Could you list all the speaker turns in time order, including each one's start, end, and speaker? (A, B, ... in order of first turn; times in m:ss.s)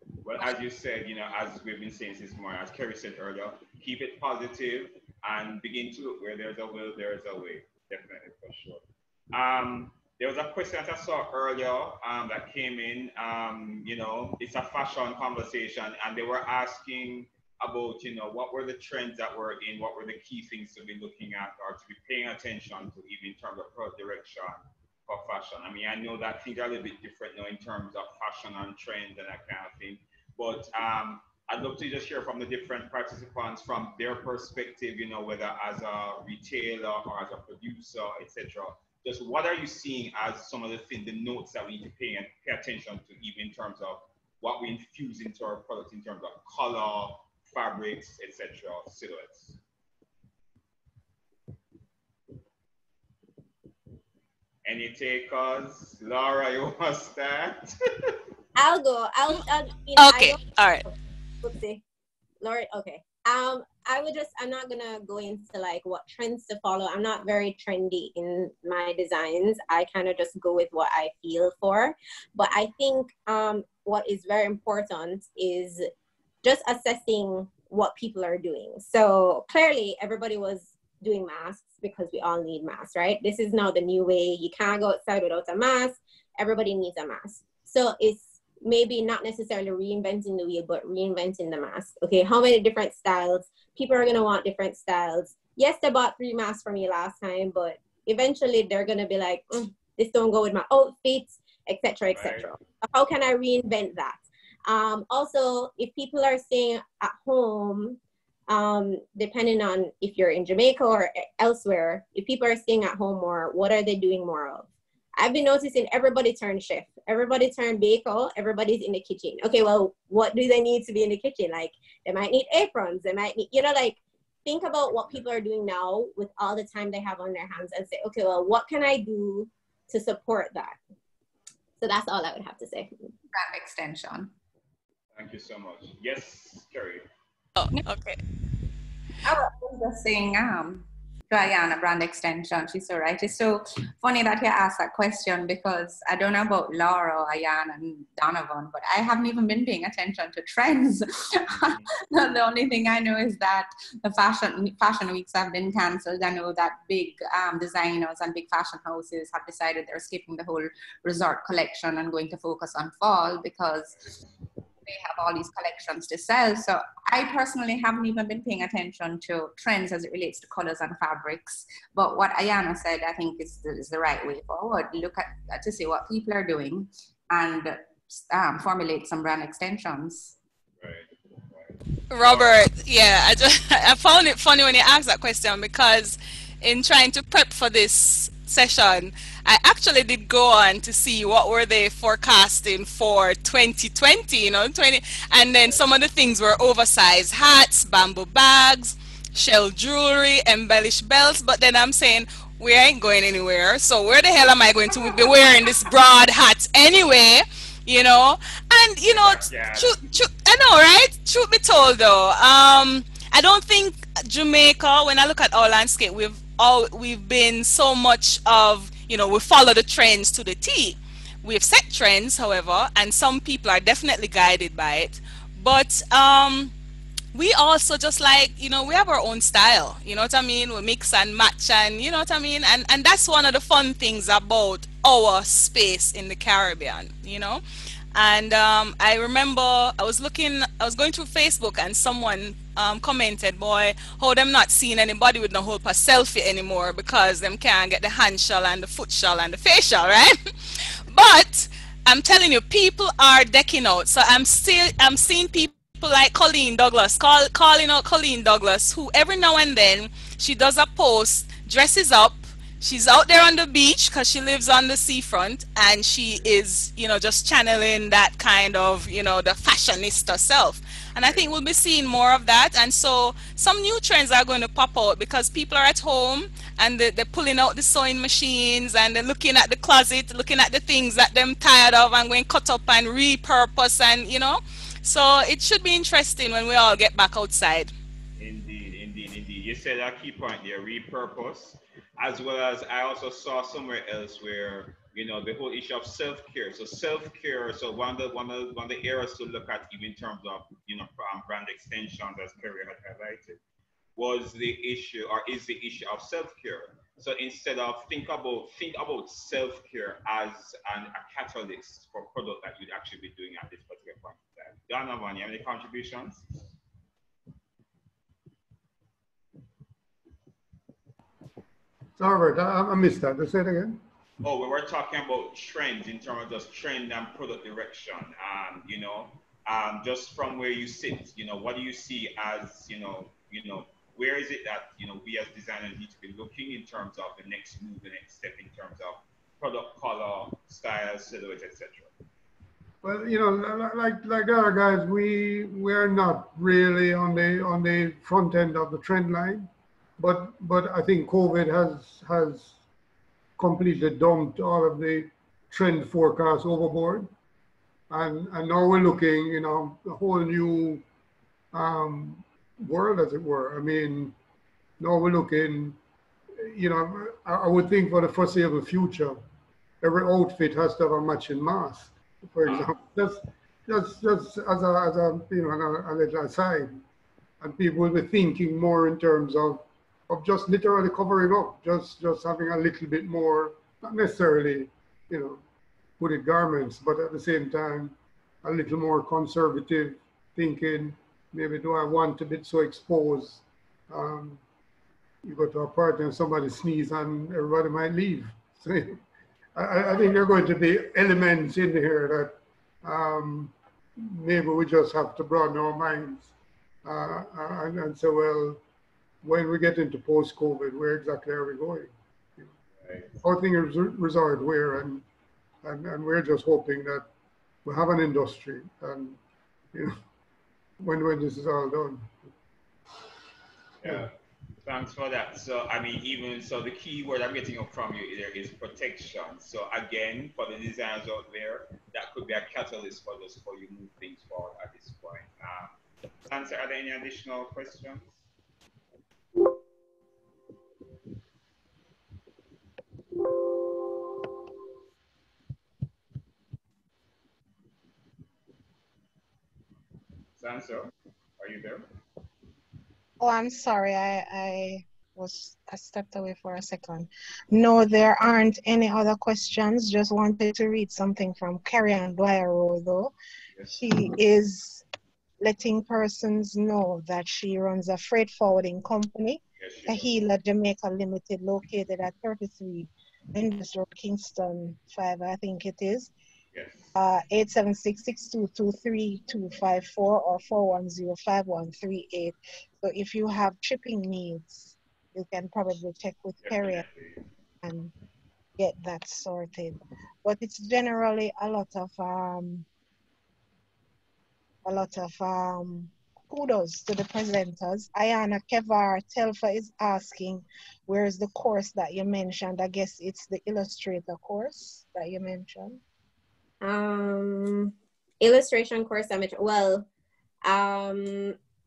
0:00.2-0:49.6 A
0:54.6-0:58.2 A
0:58.6-1:01.8 B
1:00.0-1:00.8 C
1:02.4-1:15.9 B
1:16.4-2:10.8 B
1:42.1-1:42.6 A
2:04.9-2:05.2 A
2:11.8-2:12.9 B
2:13.3-2:14.3 D
2:15.1-2:17.1 A
2:17.6-2:18.2 C
2:19.2-2:44.1 D
2:44.9-3:00.4 D
3:00.8-3:02.6 A
3:02.1-3:46.7 C
3:29.1-3:30.0 A
3:47.3-3:57.6 C
3:58.1-4:10.4 C
4:11.1-4:47.9 C
4:31.2-4:31.5 A
4:48.4-5:03.6 A
5:04.2-5:16.5 A
5:22.2-5:24.0 E
5:24.4-5:42.1 A
5:43.0-5:52.8 E
5:53.6-5:57.3 E
5:58.1-6:01.0 E
6:01.7-6:04.4 E
6:05.0-6:06.0 E
6:06.6-6:09.4 E
6:10.0-6:17.0 E
6:12.7-6:12.9 A
6:17.6-6:25.6 E
6:26.2-6:34.6 E
6:35.4-6:39.2 E
6:39.8-6:46.5 E
6:47.0-6:48.8 E
6:49.4-6:52.7 E
6:53.0-6:53.4 A
6:53.4-6:55.2 E
6:55.8-6:57.3 E
6:57.8-6:59.4 E
6:59.9-7:00.2 E
7:01.0-7:02.4 E
7:04.0-7:16.0 A
7:04.0-7:04.3 E
7:16.5-7:18.4 A
7:30.6-7:32.1 A
7:33.4-7:43.3 F
7:43.9-7:45.0 F
7:45.6-7:56.3 F
7:49.8-7:50.5 A
7:56.7-7:57.2 A
7:57.2-8:07.1 F
8:06.6-8:07.5 A
8:07.8-8:08.1 F
8:08.8-8:12.9 F
8:14.9-8:26.0 F
8:26.8-8:30.1 B
8:30.6-8:31.6 B